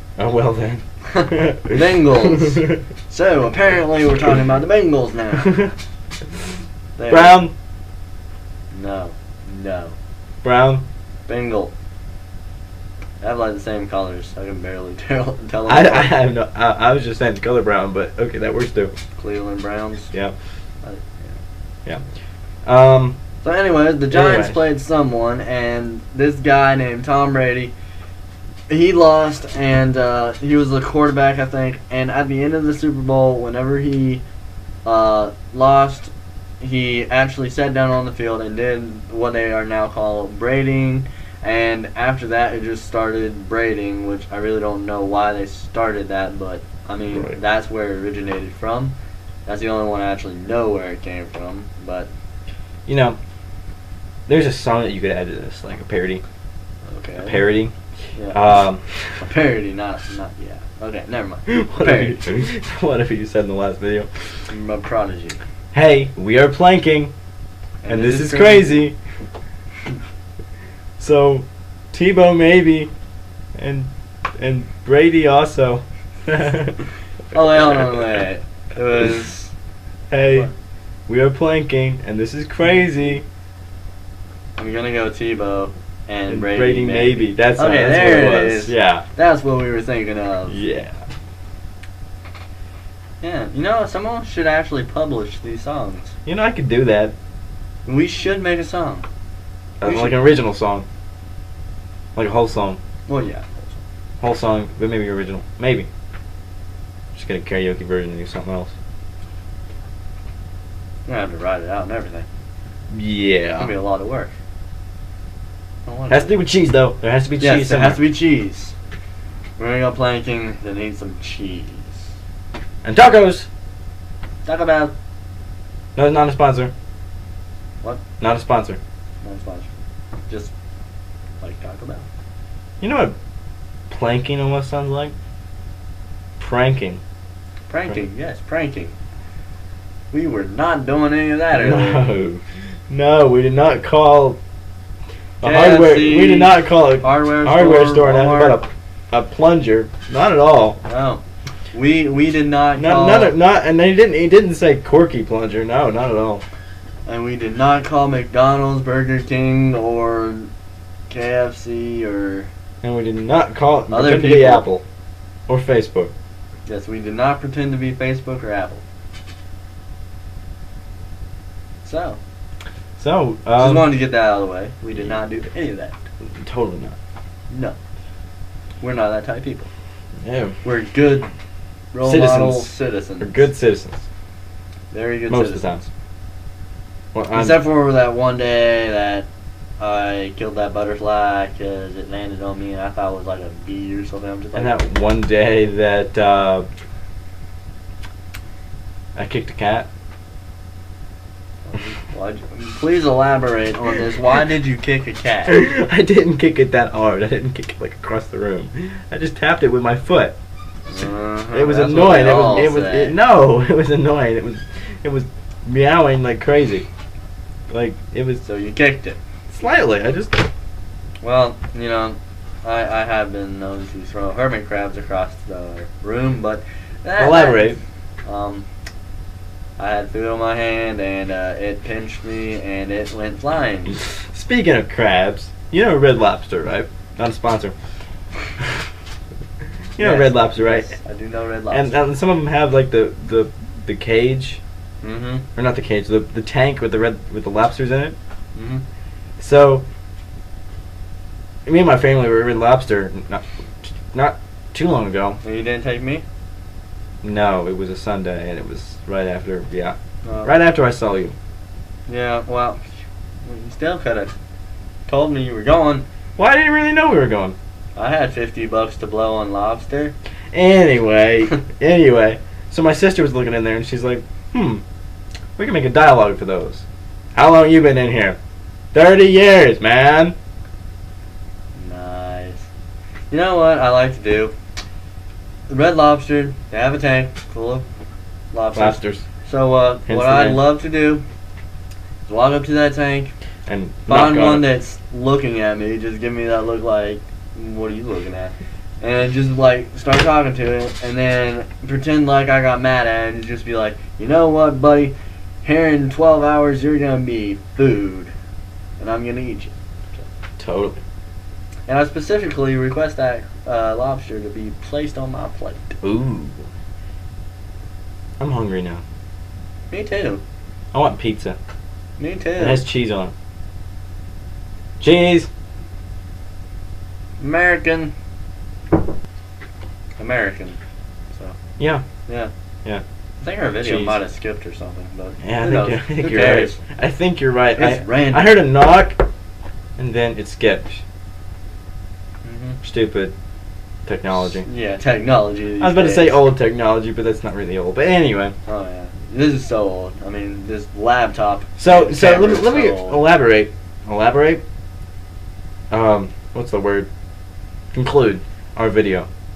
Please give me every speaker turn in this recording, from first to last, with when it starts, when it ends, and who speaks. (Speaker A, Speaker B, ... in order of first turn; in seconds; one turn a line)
Speaker A: 0.2-2.8
Speaker B: 1.1-5.7
Speaker A: 5.4-5.7
Speaker B: 7.0-7.5
Speaker A: 7.1-7.5
Speaker B: 8.7-10.0
Speaker A: 10.4-10.8
Speaker B: 11.3-11.7
Speaker B: 13.2-16.1
Speaker A: 15.7-18.9
Speaker B: 19.2-20.1
Speaker B: 20.8-21.4
Speaker A: 22.6-23.2
Speaker B: 23.4-27.7
Speaker A: 24.1-24.7
Speaker B: 28.7-34.2
Speaker B: 34.9-48.9
Speaker A: 47.1-47.4
Speaker B: 49.5-52.1
Speaker A: 52.9-53.2
Speaker A: 54.3-56.2
Speaker B: 56.9-57.4
Speaker A: 57.2-57.7
Speaker B: 58.1-58.6
Speaker A: 58.3-58.9
Speaker B: 59.2-62.2
Speaker A: 61.5-64.1
Speaker B: 64.5-65.4
Speaker A: 65.7-67.1
Speaker B: 67.8-68.9
Speaker A: 67.9-69.0
Speaker A: 71.0-72.9
Speaker A: 73.6-76.8
Speaker B: 77.3-79.5
Speaker A: 80.1-80.5
Speaker A: 81.1-83.2
Speaker B: 84.6-90.6
Speaker A: 86.3-89.1
Speaker A: 90.5-91.0
Speaker B: 93.2-96.1
Speaker A: 96.3-97.1
Speaker B: 97.9-99.1
Speaker A: 99.8-100.9
Speaker B: 99.8-100.2
Speaker A: 102.2-102.8
Speaker B: 103.1-103.8
Speaker A: 104.2-105.9
Speaker A: 107.1-108.7
Speaker B: 111.1-112.3
Speaker A: 112.9-113.7
Speaker B: 113.6-114.3
Speaker B: 115.9-116.4
Speaker A: 116.1-118.0
Speaker B: 117.4-118.7
Speaker B: 119.6-122.1
Speaker A: 122.8-123.5
Speaker B: 124.5-124.9
Speaker A: 126.0-126.7
Speaker A: 128.2-128.8
Speaker B: 129.2-129.7
Speaker B: 131.4-132.1
Speaker A: 132.8-133.2
Speaker A: 133.9-135.1
Speaker A: 136.4-137.0
Speaker B: 137.7-138.9
Speaker B: 140.1-142.1
Speaker A: 141.5-144.4
Speaker A: 145.4-150.8
Speaker B: 145.4-148.6
Speaker B: 150.8-151.2
Speaker B: 151.7-153.3
Speaker A: 152.8-156.4
Speaker B: 157.1-160.5
Speaker B: 161.1-162.5
Speaker A: 162.8-164.8
Speaker B: 163.9-164.7
Speaker A: 165.5-166.1
Speaker B: 166.7-168.8
Speaker B: 171.8-172.2
Speaker A: 173.0-173.9
Speaker B: 173.6-176.0
Speaker A: 176.2-177.0
Speaker B: 177.5-177.8
Speaker B: 178.8-179.7
Speaker A: 180.2-180.6
Speaker B: 180.6-181.3
Speaker B: 181.9-183.5
Speaker A: 182.0-184.1
Speaker B: 184.9-185.9
Speaker A: 185.3-185.8
Speaker A: 187.1-187.6
Speaker B: 187.3-189.3
Speaker B: 189.8-194.8
Speaker A: 194.6-196.7
Speaker A: 199.2-199.9
Speaker B: 201.7-205.6
Speaker A: 205.5-210.4
Speaker B: 210.9-213.2
Speaker A: 211.5-216.9
Speaker A: 217.7-218.4
Speaker B: 218.4-219.2
Speaker A: 219.5-220.5
Speaker B: 221.2-228.7
Speaker A: 227.2-227.8
Speaker B: 229.8-234.0
Speaker A: 234.3-237.7
Speaker A: 240.0-241.0
Speaker B: 240.0-242.0
Speaker A: 241.7-244.6
Speaker B: 245.0-245.5
Speaker A: 245.6-248.2
Speaker B: 248.6-248.8
Speaker A: 249.4-249.9
Speaker A: 251.7-255.4
Speaker B: 255.4-256.2
Speaker A: 257.2-261.4
Speaker B: 260.2-260.5
Speaker B: 262.1-262.8
Speaker B: 263.4-264.4
Speaker B: 265.1-266.1
Speaker A: 266.4-267.6
Speaker B: 268.0-270.1
Speaker A: 270.5-274.8
Speaker A: 275.6-278.4
Speaker A: 278.9-280.4
Speaker B: 281.8-282.7
Speaker B: 283.3-284.5
Speaker B: 285.7-287.9
Speaker B: 288.5-291.2
Speaker A: 288.8-289.3
Speaker A: 290.1-290.6
Speaker B: 292.3-293.3
Speaker A: 293.7-294.7
Speaker B: 294.1-308.3
Speaker B: 309.0-310.2
Speaker A: 310.6-311.0
Speaker B: 311.9-316.0
Speaker A: 316.0-316.6
Speaker A: 318.4-319.0
Speaker B: 319.9-320.4
Speaker A: 320.9-321.6
Speaker B: 322.2-322.8
Speaker A: 322.6-323.3
Speaker A: 325.0-325.5
Speaker B: 327.4-328.1
Speaker B: 330.2-330.8
Speaker A: 331.8-332.1
Speaker B: 333.4-336.8
Speaker A: 333.8-334.2
Speaker A: 335.4-339.2
Speaker B: 337.8-338.6
Speaker A: 340.0-341.0
Speaker B: 342.4-342.8
Speaker A: 342.8-343.3
Speaker A: 344.1-344.7
Speaker B: 344.5-346.4
Speaker A: 345.8-348.6
Speaker B: 348.7-353.2
Speaker A: 351.8-354.6
Speaker A: 355.9-357.1
Speaker A: 357.9-359.3